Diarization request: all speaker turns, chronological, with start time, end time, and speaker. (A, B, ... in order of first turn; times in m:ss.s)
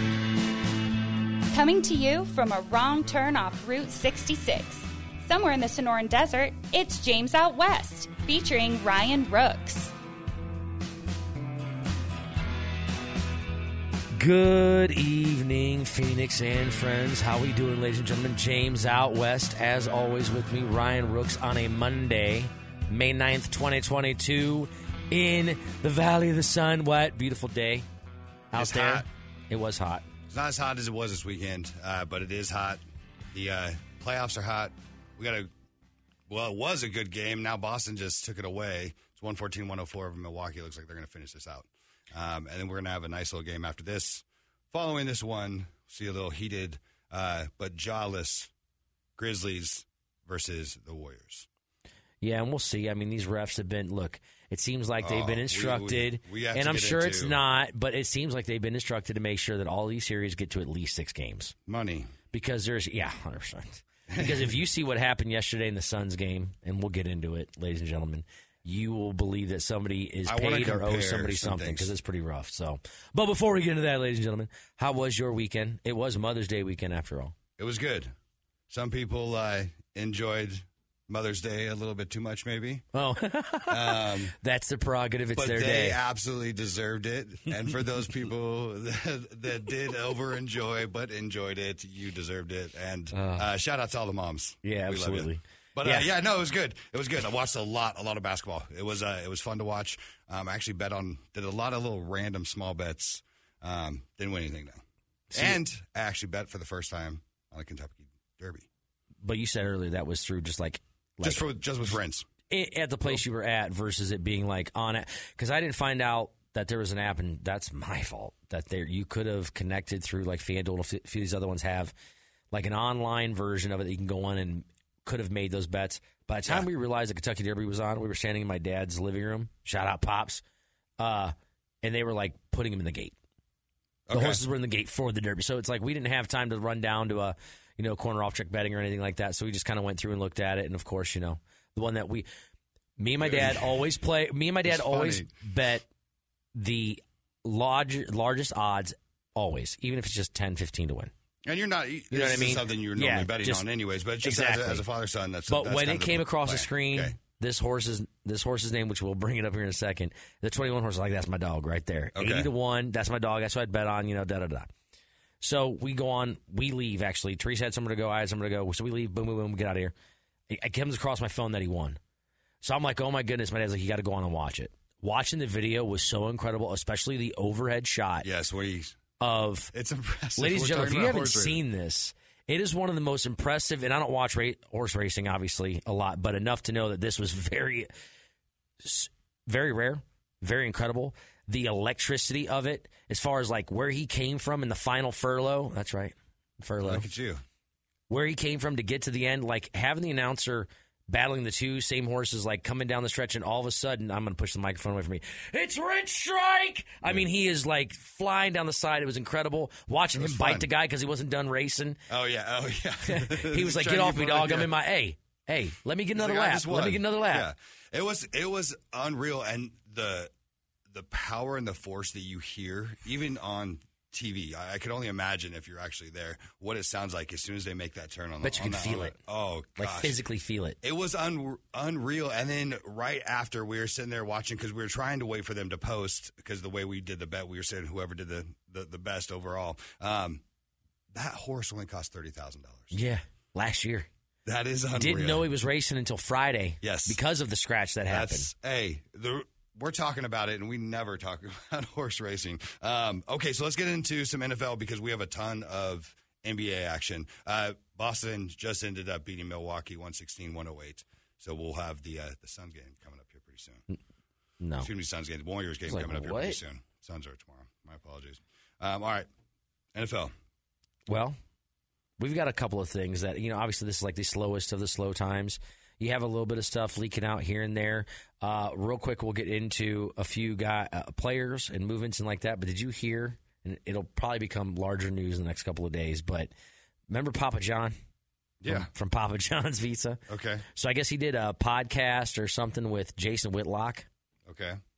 0:01.5-0:09.9 A
0:14.1-0:27.8 B
0:28.5-0:30.1 B
0:28.5-0:29.1 C
0:30.3-0:35.5 C
0:36.3-0:48.5 C
0:49.2-0:51.5 C
0:52.2-1:01.5 B
0:55.0-0:57.4 C
1:01.6-1:02.1 C
1:02.3-1:17.3 B
1:04.1-1:04.5 C
1:10.2-1:11.9 C
1:17.6-1:18.1 C
1:18.7-1:22.8 C
1:22.9-1:26.0 B
1:23.7-1:24.3 C
1:25.3-1:48.7 C
1:33.1-1:33.5 B
1:34.6-1:36.1 B
1:45.3-1:45.6 B
1:49.2-1:51.5 B
1:51.2-1:52.2 C
1:52.5-2:01.9 B
2:02.5-2:10.4 B
2:11.0-2:13.1 B
2:14.1-2:14.4 C
2:14.1-2:22.3 B
2:23.0-2:25.8 B
2:23.2-2:23.9 C
2:24.6-2:25.3 C
2:26.5-2:31.1 B
2:31.4-2:37.2 C
2:32.1-2:33.7 B
2:34.2-2:34.8 B
2:35.5-2:44.7 B
2:42.1-2:42.5 C
2:45.4-2:49.9 B
2:50.5-2:52.0 B
2:52.6-2:58.3 B
2:58.2-2:59.0 C
2:59.2-2:59.7 B
2:59.7-3:01.6 C
3:00.4-3:07.9 B
3:08.8-3:17.1 B
3:16.8-3:17.4 C
3:18.1-3:32.0 B
3:30.2-3:30.7 C
3:32.1-3:34.7 C
3:33.0-3:37.5 B
3:36.1-3:40.3 C
3:40.9-3:50.2 C
3:48.4-3:49.2 B
3:49.8-3:50.8 B
3:50.8-4:00.4 C
4:01.1-4:03.0 C
4:02.9-4:04.1 B
4:04.4-4:05.5 C
4:04.9-4:08.5 B
4:06.8-4:07.2 C
4:08.1-4:23.8 C
4:24.6-4:24.9 B
4:24.8-4:29.3 C
4:25.9-4:26.6 B
4:29.9-4:30.3 C
4:31.1-4:31.4 B
4:32.2-4:46.5 B
4:47.1-4:48.0 B
4:48.6-4:48.9 C
4:48.6-4:50.2 B
4:50.3-4:50.6 C
4:50.7-4:54.1 B
4:54.4-4:54.8 C